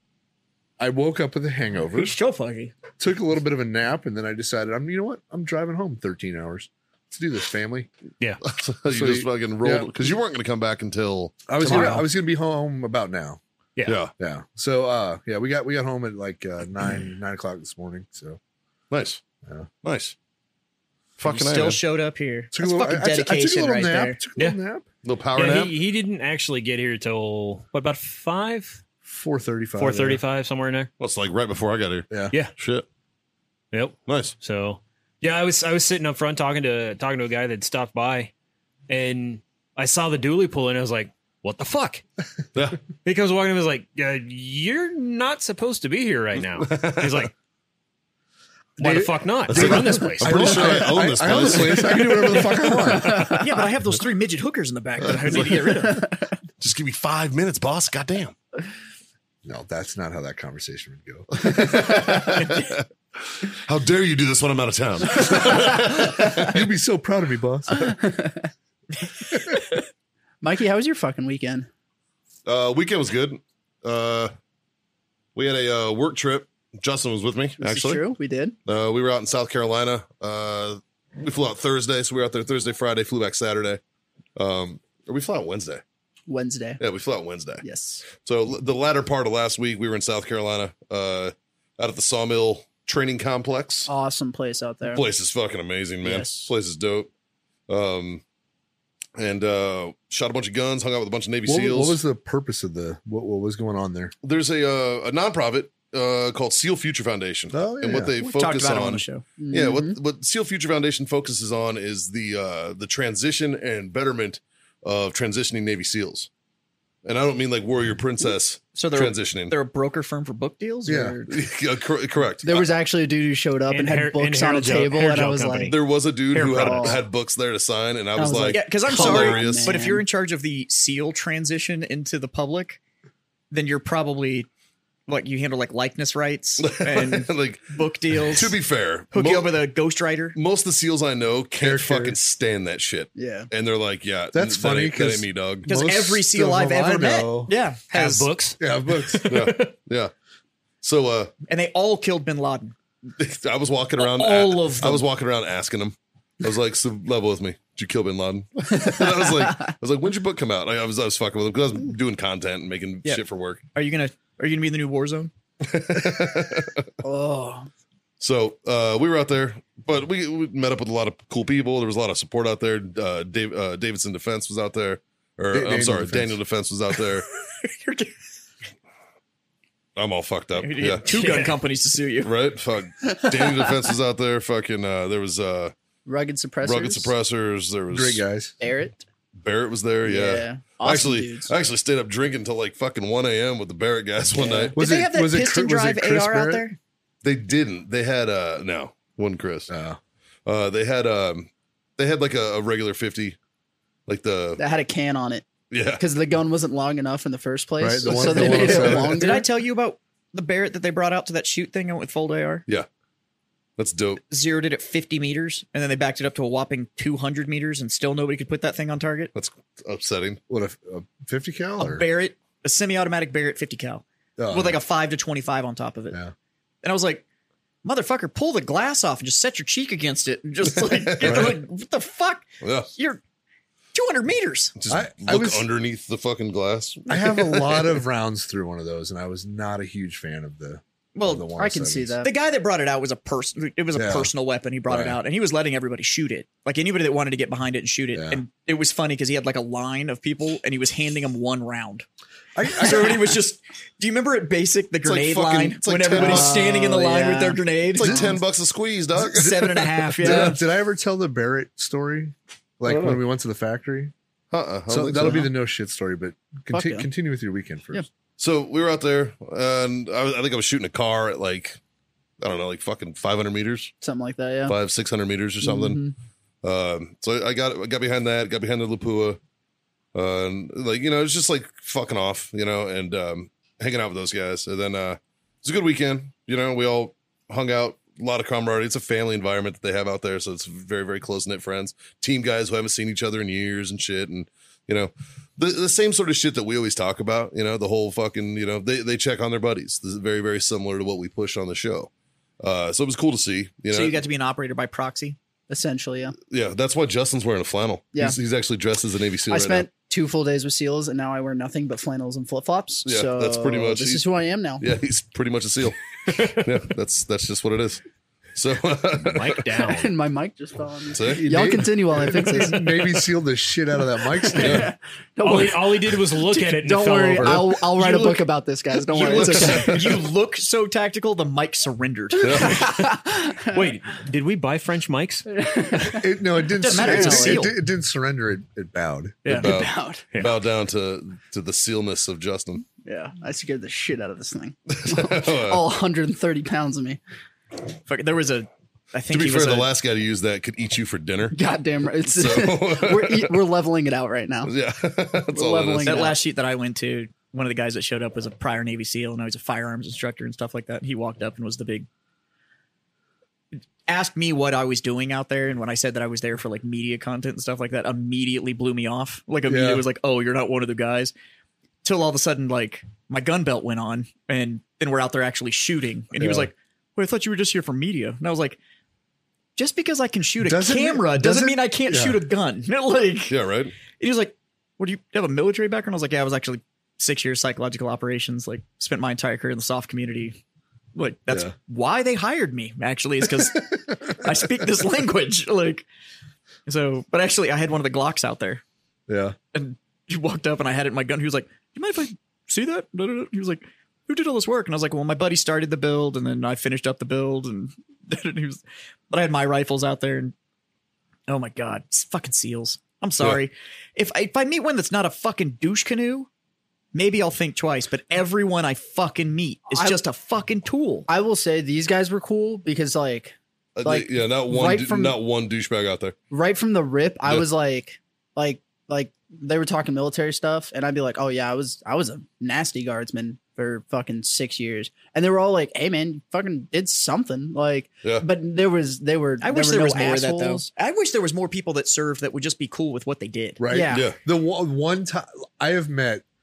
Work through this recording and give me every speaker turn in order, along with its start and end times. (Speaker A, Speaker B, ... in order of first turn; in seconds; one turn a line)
Speaker A: 0.8-2.1
Speaker B: 1.9-2.7
Speaker A: 3.0-7.9
Speaker C: 8.4-12.0
Speaker A: 8.9-9.9
Speaker A: 11.5-13.4
Speaker B: 11.6-12.0
Speaker D: 13.8-14.0
Speaker C: 13.8-14.1
Speaker A: 14.2-18.4
Speaker C: 18.9-19.2
Speaker C: 19.8-20.1
Speaker C: 21.2-21.8
Speaker B: 21.2-24.2
Speaker A: 22.5-24.9
Speaker C: 25.0-25.8
Speaker D: 25.3-28.8
Speaker A: 29.1-30.2
Speaker D: 29.8-30.9
Speaker C: 31.0-32.9
Speaker D: 33.7-38.3
Speaker C: 34.1-34.4
Speaker D: 38.9-42.0
Speaker C: 42.5-42.8
Speaker D: 43.0-47.3
Speaker C: 46.6-47.3
Speaker D: 48.8-50.6
Speaker A: 48.8-53.4
Speaker C: 49.5-52.1
Speaker E: 52.9-53.6
Speaker B: 53.2-56.1
Speaker C: 55.0-56.0
Speaker E: 55.6-56.1
Speaker C: 56.6-58.4
Speaker A: 59.4-62.1
Speaker C: 61.4-66.6
Speaker A: 66.5-68.0
Speaker E: 67.7-68.5
Speaker E: 69.3-69.8
Speaker E: 70.4-71.7
Speaker C: 72.5-74.3
Speaker C: 75.3-78.0
Speaker E: 77.6-78.6
Speaker C: 78.7-83.8
Speaker C: 84.4-85.8
Speaker E: 86.3-86.8
Speaker C: 86.8-93.9
Speaker E: 87.6-88.0
Speaker E: 93.9-95.1
Speaker C: 94.9-97.1
Speaker E: 96.0-96.5
Speaker C: 97.7-98.2
Speaker C: 99.2-102.0
Speaker A: 101.5-104.1
Speaker C: 104.2-116.3
Speaker A: 107.5-108.2
Speaker B: 108.2-109.2
Speaker E: 109.4-110.0
Speaker C: 117.0-119.5
Speaker B: 118.8-121.4
Speaker A: 120.9-121.2
Speaker C: 121.3-122.7
Speaker E: 122.4-125.8
Speaker D: 123.7-125.8
Speaker C: 125.7-129.8
Speaker B: 126.3-127.0
Speaker E: 126.5-127.0
Speaker E: 128.2-130.0
Speaker B: 128.5-132.8
Speaker B: 133.5-134.5
Speaker B: 135.1-138.6
Speaker C: 136.6-139.6
Speaker B: 139.1-140.4
Speaker C: 140.3-145.7
Speaker A: 141.6-142.2
Speaker E: 143.2-143.5
Speaker A: 144.3-147.5
Speaker B: 145.7-148.3
Speaker D: 147.9-149.7
Speaker A: 148.6-149.5
Speaker C: 149.3-150.1
Speaker C: 150.8-151.3
Speaker B: 151.5-152.8
Speaker C: 153.2-163.6
Speaker B: 154.0-155.0
Speaker B: 163.1-165.3
Speaker C: 165.6-166.9
Speaker E: 167.0-167.7
Speaker C: 168.2-177.3
Speaker A: 175.5-176.4
Speaker B: 177.6-178.1
Speaker C: 180.0-181.1
Speaker B: 180.6-182.3
Speaker D: 181.1-181.6
Speaker C: 182.2-185.7
Speaker E: 183.3-183.7
Speaker E: 186.1-187.1
Speaker C: 186.6-188.2
Speaker A: 187.9-188.6
Speaker E: 188.6-189.1
Speaker C: 189.3-194.8
Speaker E: 190.0-191.5
Speaker E: 194.4-194.7
Speaker B: 194.7-196.8
Speaker A: 194.8-196.7
Speaker C: 197.2-199.7
Speaker A: 199.7-200.0
Speaker C: 200.4-203.4
Speaker C: 204.1-204.6
Speaker E: 204.6-209.5
Speaker C: 205.7-206.0
Speaker A: 207.8-209.3
Speaker C: 208.1-209.1
Speaker B: 208.4-212.7
Speaker C: 213.8-214.2
Speaker B: 214.3-219.3
Speaker C: 219.3-220.4
Speaker A: 220.5-222.0
Speaker B: 221.8-226.2
Speaker A: 224.4-224.8
Speaker B: 226.8-227.3
Speaker B: 227.8-233.2
Speaker C: 230.8-231.6
Speaker C: 232.6-232.9
Speaker B: 233.9-234.8
Speaker C: 234.8-238.0
Speaker A: 234.9-235.7
Speaker A: 237.1-242.2
Speaker B: 241.2-241.5
Speaker E: 241.6-242.3
Speaker B: 242.2-252.1
Speaker A: 243.9-244.3
Speaker A: 244.9-245.2
Speaker A: 248.1-248.4
Speaker A: 252.6-253.3
Speaker B: 252.7-258.4
Speaker C: 255.0-256.6
Speaker E: 256.1-258.2
Speaker C: 257.9-260.5
Speaker A: 258.1-258.3
Speaker B: 259.2-260.6
Speaker A: 260.2-264.1
Speaker C: 262.9-263.2
Speaker C: 264.5-265.5
Speaker A: 264.9-268.0
Speaker E: 266.7-267.1
Speaker C: 268.4-271.8
Speaker C: 272.4-273.9
Speaker E: 274.0-274.8
Speaker C: 274.7-276.0
Speaker E: 275.6-276.1
Speaker C: 276.6-279.4
Speaker C: 280.1-304.2
Speaker B: 303.9-305.4
Speaker E: 305.7-306.4
Speaker C: 306.5-309.9
Speaker E: 309.5-314.9
Speaker C: 313.1-314.2
Speaker C: 314.8-318.0
Speaker C: 318.6-319.6
Speaker D: 319.2-320.1
Speaker E: 319.8-323.0
Speaker C: 321.1-321.5
Speaker A: 321.3-324.9
Speaker E: 324.4-330.0
Speaker C: 324.6-324.9
Speaker D: 325.4-327.7
Speaker B: 328.0-328.4
Speaker C: 329.1-330.2
Speaker B: 329.1-332.8
Speaker C: 332.4-332.9
Speaker E: 332.4-333.9
Speaker D: 333.7-335.5
Speaker E: 335.5-336.3
Speaker A: 336.1-339.4
Speaker B: 336.8-337.8
Speaker E: 336.9-337.6
Speaker B: 339.4-339.7
Speaker E: 339.6-340.3
Speaker C: 339.6-342.9
Speaker E: 343.0-347.2
Speaker C: 344.9-345.9
Speaker B: 348.1-349.9
Speaker C: 349.3-351.6
Speaker E: 351.5-354.7
Speaker C: 352.2-353.6
Speaker C: 354.6-356.3
Speaker E: 355.5-356.4
Speaker B: 356.0-362.1
Speaker B: 364.1-371.3
Speaker A: 369.7-370.1
Speaker B: 372.0-378.8
Speaker A: 376.4-376.7
Speaker B: 379.8-383.6
Speaker A: 380.6-382.4
Speaker C: 383.5-384.0
Speaker B: 384.1-390.6
Speaker B: 391.1-396.1
Speaker B: 396.9-398.8
Speaker A: 399.3-399.6
Speaker B: 399.7-410.5
Speaker B: 411.5-416.5
Speaker B: 417.1-421.3
Speaker E: 421.3-425.4
Speaker C: 424.0-426.4
Speaker E: 426.5-440.9
Speaker B: 439.6-443.8
Speaker A: 443.8-446.4
Speaker E: 443.9-444.3
Speaker C: 444.1-444.4